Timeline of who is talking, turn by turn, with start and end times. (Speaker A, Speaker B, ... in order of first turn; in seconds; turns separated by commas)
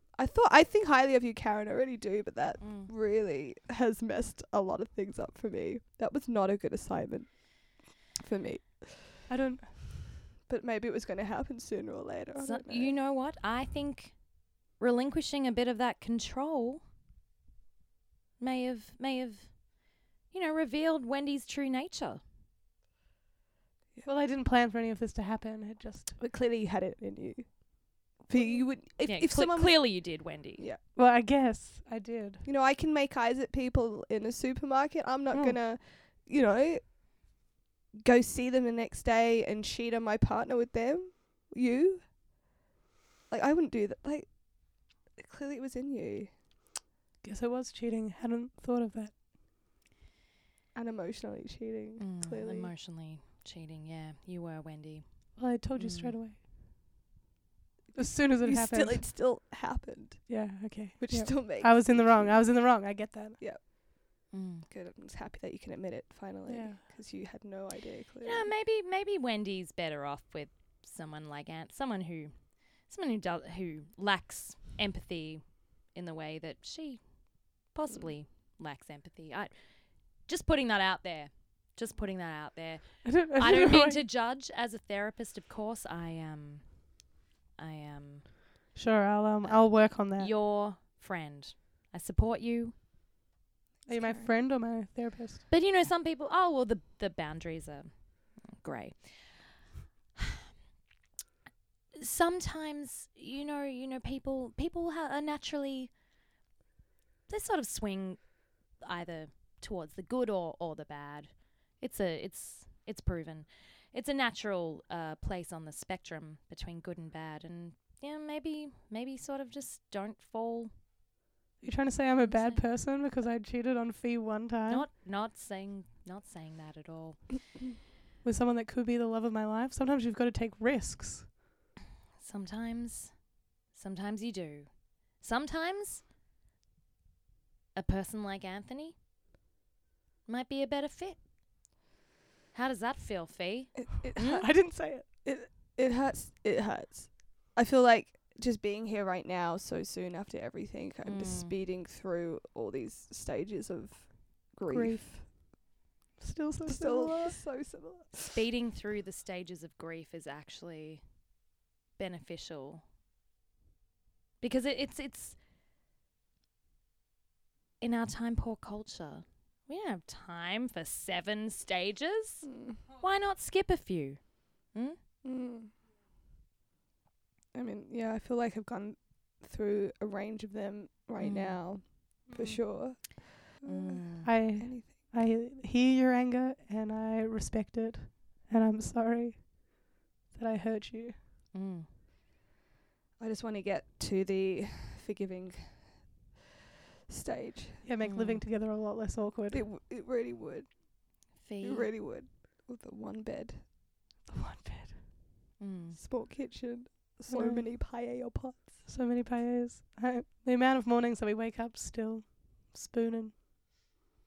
Speaker A: 0.1-9.2, Speaker B: 2.6-2.9, Speaker C: 9.3-9.8, Speaker A: 10.4-12.9, Speaker B: 12.3-16.8, Speaker B: 18.4-22.2, Speaker C: 24.0-26.2, Speaker A: 26.2-30.8, Speaker B: 29.0-30.6, Speaker C: 30.9-32.4, Speaker A: 32.4-37.2, Speaker C: 35.3-35.6, Speaker A: 38.0-42.1, Speaker A: 43.3-46.3, Speaker C: 47.2-49.2, Speaker A: 50.7-52.7, Speaker B: 52.0-56.2, Speaker C: 55.4-56.4, Speaker C: 57.9-59.0, Speaker A: 58.0-60.4, Speaker C: 60.3-63.4, Speaker A: 61.0-63.6, Speaker B: 64.3-64.7, Speaker A: 64.7-68.5, Speaker C: 66.5-66.8, Speaker B: 68.2-88.3, Speaker A: 77.9-78.1, Speaker C: 83.0-84.0, Speaker C: 88.7-90.3, Speaker B: 89.4-92.7, Speaker C: 93.8-95.5, Speaker A: 93.9-94.3, Speaker B: 95.5-99.6, Speaker B: 101.9-105.9, Speaker B: 107.3-120.7, Speaker C: 121.6-124.9, Speaker B: 122.3-122.6, Speaker B: 124.7-127.5, Speaker C: 128.2-131.3, Speaker B: 132.2-136.0, Speaker B: 137.7-138.9, Speaker B: 140.2-141.2, Speaker B: 142.5-144.1, Speaker A: 143.8-155.3, Speaker C: 144.2-145.1, Speaker B: 151.0-151.6, Speaker C: 154.7-155.3, Speaker C: 156.2-157.4, Speaker A: 156.7-158.4, Speaker B: 158.2-161.1, Speaker B: 162.0-162.8, Speaker B: 164.4-165.3, Speaker B: 167.8-175.0, Speaker A: 172.4-172.8, Speaker A: 175.2-175.7, Speaker A: 177.5-185.1, Speaker B: 181.2-181.6, Speaker C: 182.2-182.6, Speaker B: 183.6-184.3, Speaker C: 184.2-191.2, Speaker B: 191.5-191.9, Speaker A: 193.2-196.2, Speaker A: 197.1-197.8, Speaker C: 197.8-199.6, Speaker B: 198.0-198.4, Speaker A: 199.5-201.1, Speaker B: 201.4-201.9, Speaker A: 201.6-204.3, Speaker C: 204.2-205.0, Speaker B: 205.6-206.0, Speaker A: 205.9-208.8, Speaker C: 207.3-207.7, Speaker C: 208.8-213.3